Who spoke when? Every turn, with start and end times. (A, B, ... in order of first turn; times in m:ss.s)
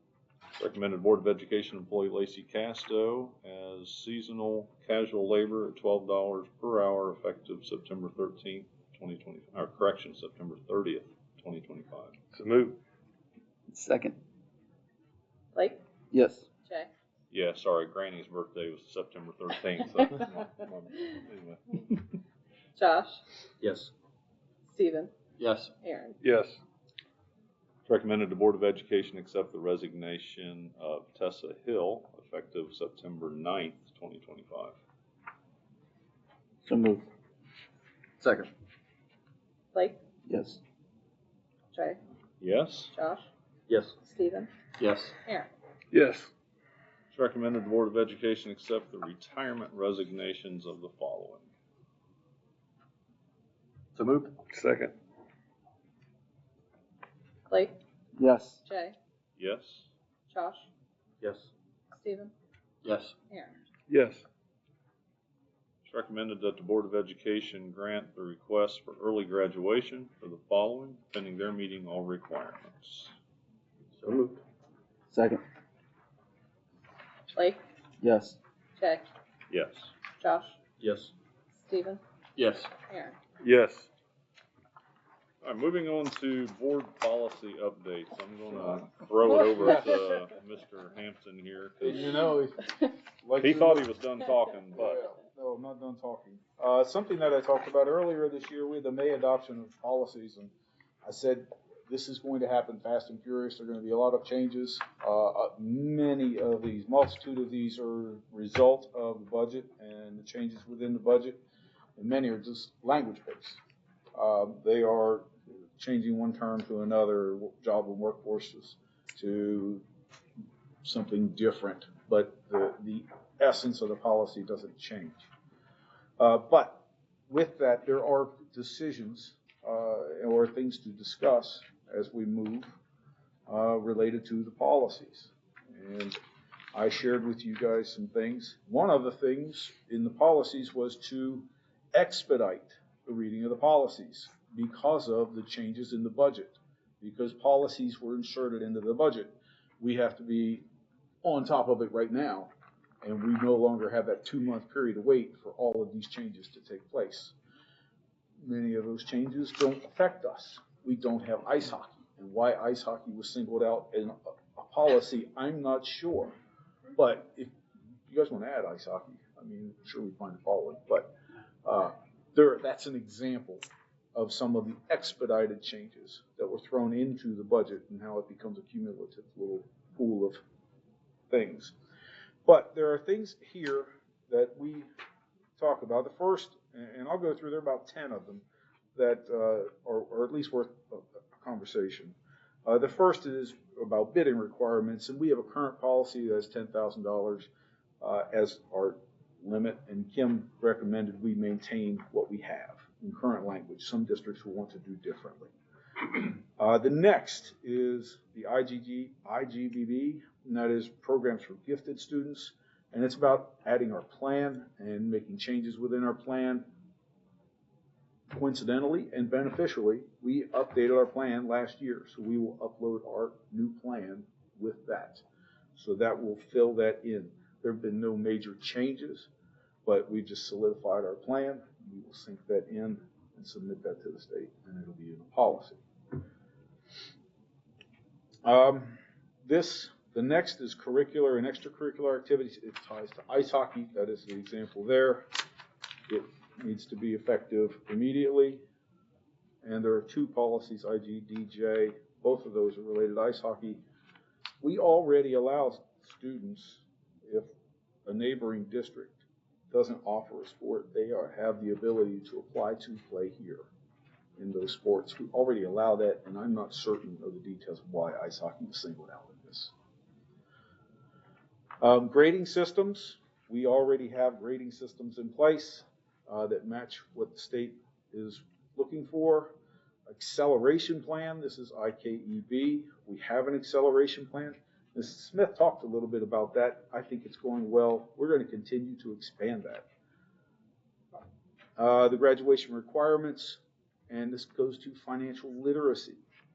0:00.5-0:12.2 A
0:12.3-0:12.8 B
0:13.7-0:14.1 C
0:15.5-0:15.8 D
0:16.6-0:16.9 D
0:17.3-0:22.2 A
0:22.8-0:23.2 D
0:23.6-0:23.9 E
0:24.7-0:25.1 D
0:25.4-0:25.7 E
0:25.8-0:26.2 D
0:26.2-0:26.6 B
0:27.9-0:34.8 A
0:36.6-0:37.1 C
0:38.2-0:38.5 E
0:39.7-0:40.0 D
0:40.3-0:40.6 C
0:41.7-0:42.0 D
0:42.4-0:42.9 A
0:42.9-0:43.3 D
0:43.7-0:44.0 E
0:44.0-0:44.5 D
0:44.8-0:45.2 E
0:45.9-0:46.3 B
0:47.1-0:51.5 A
0:54.0-0:54.4 E
0:54.5-0:54.9 B
0:57.5-0:57.8 D
0:58.2-0:58.6 C
0:58.7-0:59.0 D
0:59.4-0:59.9 A
1:00.3-1:00.7 D
1:01.2-1:01.5 E
1:02.0-1:02.3 D
1:02.8-1:03.2 E
1:03.3-1:03.6 D
1:03.9-1:04.2 B
1:05.8-1:13.1 A
1:14.0-1:14.4 E
1:15.1-1:15.4 C
1:17.3-1:17.6 D
1:18.0-1:18.4 C
1:18.8-1:19.1 D
1:19.5-1:19.9 A
1:20.2-1:20.6 D
1:20.8-1:21.1 E
1:21.6-1:22.0 D
1:22.4-1:22.7 E
1:22.9-1:23.2 D
1:23.4-1:23.9 B
1:25.4-1:32.2 A
1:31.8-1:33.9 F
1:33.4-1:35.1 A
1:34.7-1:40.5 F
1:41.0-1:51.4 F
1:52.0-1:53.6 F
1:54.2-1:59.8 F
2:00.8-2:05.3 F
2:06.2-2:12.8 F
2:13.5-2:16.2 F
2:16.7-2:30.6 F
2:31.2-2:32.5 F
2:33.0-2:37.3 F
2:38.4-2:46.4 F
2:47.0-2:47.5 F
2:48.1-2:51.1 F
2:51.6-3:00.4 F
3:01.3-3:01.7 F
3:02.4-3:04.9 F
3:05.6-3:17.5 F
3:18.0-3:36.6 F
3:38.3-3:45.2 F
3:45.8-3:49.3 F
3:49.8-3:55.8 F
3:58.4-4:05.3 F
4:06.1-4:08.6 F
4:09.6-4:13.8 F
4:14.6-4:17.5 F
4:18.1-4:19.2 F
4:19.7-4:23.7 F
4:24.4-4:29.7 F
4:31.8-4:39.5 F
4:40.1-4:49.9 F
4:51.8-4:56.2 F